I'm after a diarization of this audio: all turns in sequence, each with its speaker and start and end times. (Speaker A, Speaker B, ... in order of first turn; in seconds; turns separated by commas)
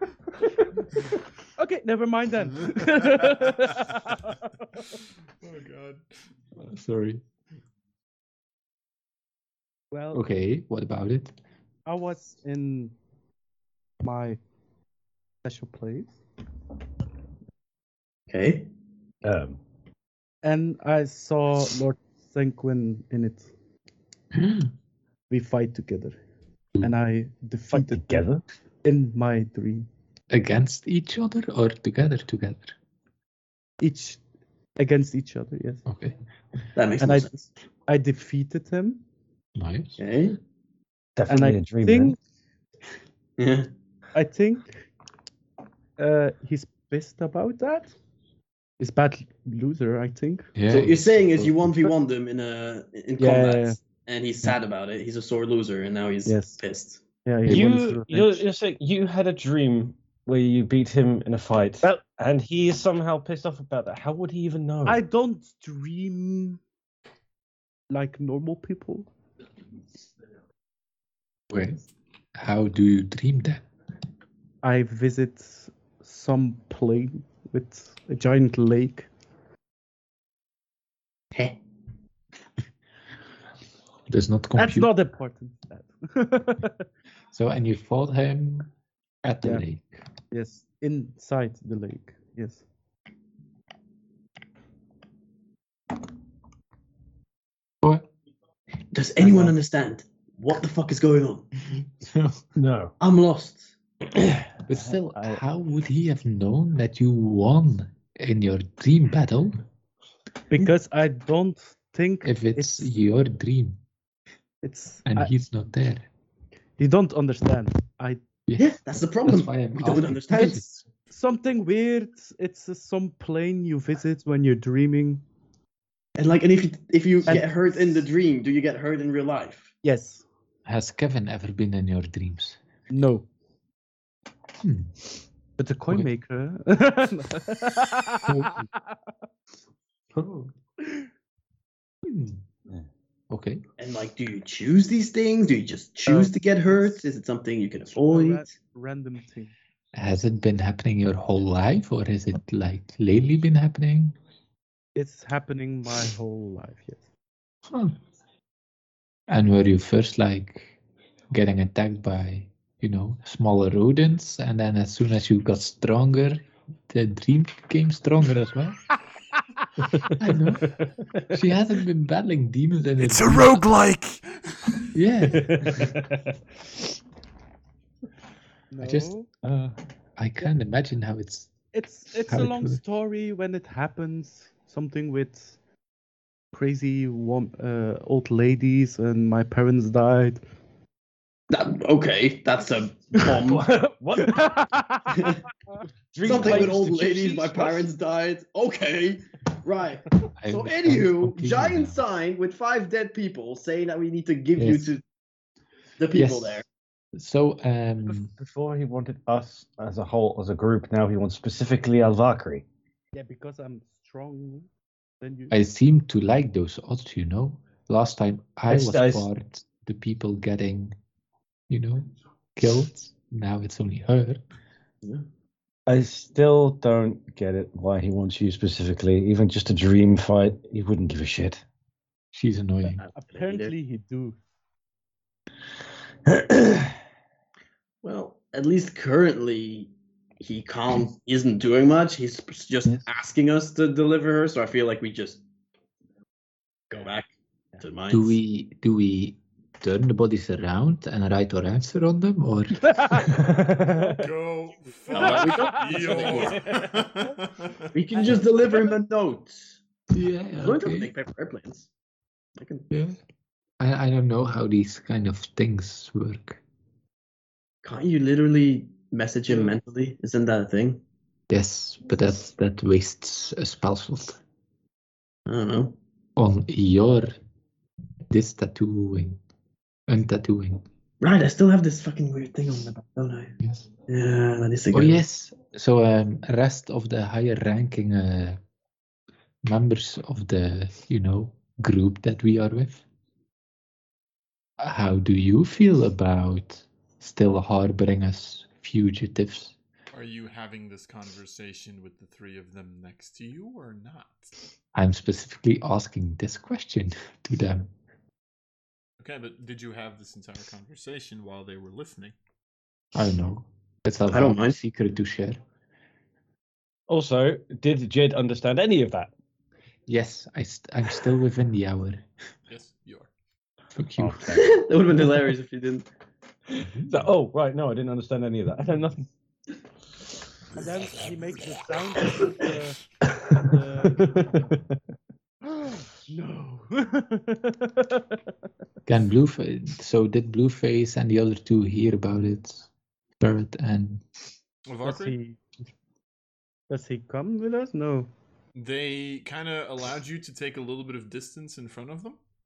Speaker A: 1.6-4.8, Speaker B: 5.4-6.0, Speaker C: 6.6-7.2, Speaker A: 9.9-10.3, Speaker C: 10.1-11.3, Speaker A: 11.9-12.9, Speaker A: 14.0-14.4, Speaker A: 15.4-16.1, Speaker D: 18.3-18.7, Speaker E: 19.2-19.6, Speaker A: 20.4-23.5, Speaker C: 24.3-24.7, Speaker A: 25.3-26.2, Speaker A: 26.8-28.3, Speaker E: 27.7-28.4, Speaker A: 28.8-29.9, Speaker C: 30.3-32.8, Speaker A: 33.8-34.2, Speaker A: 34.8-35.9, Speaker C: 35.9-36.1, Speaker D: 36.8-37.5, Speaker A: 37.0-39.0, Speaker C: 39.5-40.0, Speaker D: 40.0-40.4, Speaker E: 41.2-42.2, Speaker A: 41.3-42.2, Speaker D: 43.4-43.7, Speaker A: 44.1-44.8, Speaker A: 46.0-47.9, Speaker A: 48.8-50.5, Speaker C: 50.6-51.7, Speaker D: 50.7-57.0, Speaker A: 53.2-53.8, Speaker A: 56.3-56.6, Speaker A: 57.3-58.5, Speaker C: 57.5-57.7, Speaker E: 57.5-65.0, Speaker A: 64.9-66.6, Speaker A: 67.9-69.1, Speaker C: 71.5-71.8, Speaker C: 72.3-73.7, Speaker A: 74.6-79.1, Speaker C: 84.1-84.9, Speaker A: 84.6-86.8, Speaker C: 87.3-88.7, Speaker C: 89.2-90.0, Speaker A: 90.3-92.7, Speaker C: 97.8-98.1, Speaker D: 98.9-101.5, Speaker E: 99.2-99.5, Speaker C: 101.7-102.4, Speaker E: 102.6-102.9, Speaker D: 103.0-103.7, Speaker E: 104.2-105.4, Speaker C: 104.7-109.6, Speaker A: 110.5-112.9, Speaker C: 112.2-113.8, Speaker A: 114.6-115.3, Speaker C: 115.1-116.1, Speaker A: 116.8-118.2, Speaker C: 118.5-120.7, Speaker D: 118.6-120.6, Speaker A: 120.3-125.2, Speaker D: 126.2-129.7, Speaker A: 129.8-130.2, Speaker C: 130.7-132.6, Speaker A: 132.9-133.3, Speaker C: 134.6-135.0, Speaker A: 135.6-138.9, Speaker C: 138.3-138.7, Speaker C: 140.1-140.5, Speaker C: 142.0-142.4, Speaker C: 143.3-143.6, Speaker D: 143.8-148.5, Speaker A: 146.1-146.3, Speaker A: 148.0-149.5, Speaker C: 149.9-154.2, Speaker A: 154.9-157.1, Speaker C: 157.7-158.0, Speaker C: 159.3-160.8, Speaker C: 161.3-168.9, Speaker C: 170.2-173.6, Speaker B: 173.0-174.9, Speaker C: 174.9-175.9, Speaker E: 175.3-176.1, Speaker A: 178.7-179.3, Speaker C: 178.8-179.1, Speaker E: 179.4-179.8, Speaker C: 180.2-181.5, Speaker A: 181.7-185.6, Speaker C: 182.3-182.8, Speaker A: 186.5-190.4, Speaker D: 191.5-193.7, Speaker E: 193.3-194.8, Speaker A: 194.2-195.3, Speaker D: 195.1-195.4, Speaker E: 196.1-197.9, Speaker D: 196.2-205.0, Speaker C: 196.4-196.7, Speaker C: 200.4-202.0, Speaker C: 204.6-204.9, Speaker D: 206.0-206.7, Speaker C: 206.1-208.3, Speaker E: 208.1-212.6, Speaker A: 213.1-214.7, Speaker A: 215.2-215.5, Speaker C: 215.5-220.9, Speaker E: 218.7-219.3, Speaker C: 221.7-224.4, Speaker E: 225.9-231.6, Speaker C: 232.3-233.0, Speaker D: 233.0-233.7, Speaker A: 233.2-234.4, Speaker E: 236.3-237.0, Speaker D: 238.0-245.4, Speaker D: 246.9-248.3, Speaker C: 248.1-252.9, Speaker A: 252.8-254.2, Speaker E: 253.3-254.2, Speaker B: 254.1-257.9, Speaker D: 255.1-256.7, Speaker A: 255.1-256.8, Speaker D: 257.9-259.8, Speaker A: 258.2-258.9, Speaker C: 260.1-261.1, Speaker D: 260.6-261.9, Speaker D: 262.6-262.9, Speaker C: 262.9-263.2, Speaker C: 263.8-266.6, Speaker D: 267.8-271.0, Speaker C: 271.5-274.4, Speaker D: 275.5-276.0, Speaker C: 276.4-277.4, Speaker C: 278.3-279.4, Speaker C: 280.1-280.8, Speaker D: 281.2-283.6, Speaker C: 283.6-283.9, Speaker D: 284.1-285.2, Speaker C: 284.9-288.6, Speaker C: 289.6-293.1, Speaker C: 294.8-299.8, Speaker B: 300.1-304.5, Speaker C: 304.9-307.9, Speaker B: 309.2-312.4, Speaker C: 313.1-315.6, Speaker D: 314.3-314.8, Speaker E: 317.1-319.3, Speaker C: 320.1-322.2, Speaker B: 322.7-323.3, Speaker C: 323.9-324.6, Speaker E: 324.2-324.7, Speaker D: 324.5-326.1, Speaker E: 326.7-329.3, Speaker A: 330.8-333.0, Speaker A: 333.6-334.7, Speaker E: 334.2-334.8, Speaker A: 335.8-338.4, Speaker C: 339.1-342.9, Speaker C: 343.4-344.2, Speaker B: 344.9-345.4, Speaker A: 345.0-345.6, Speaker A: 346.9-348.3, Speaker B: 348.8-352.4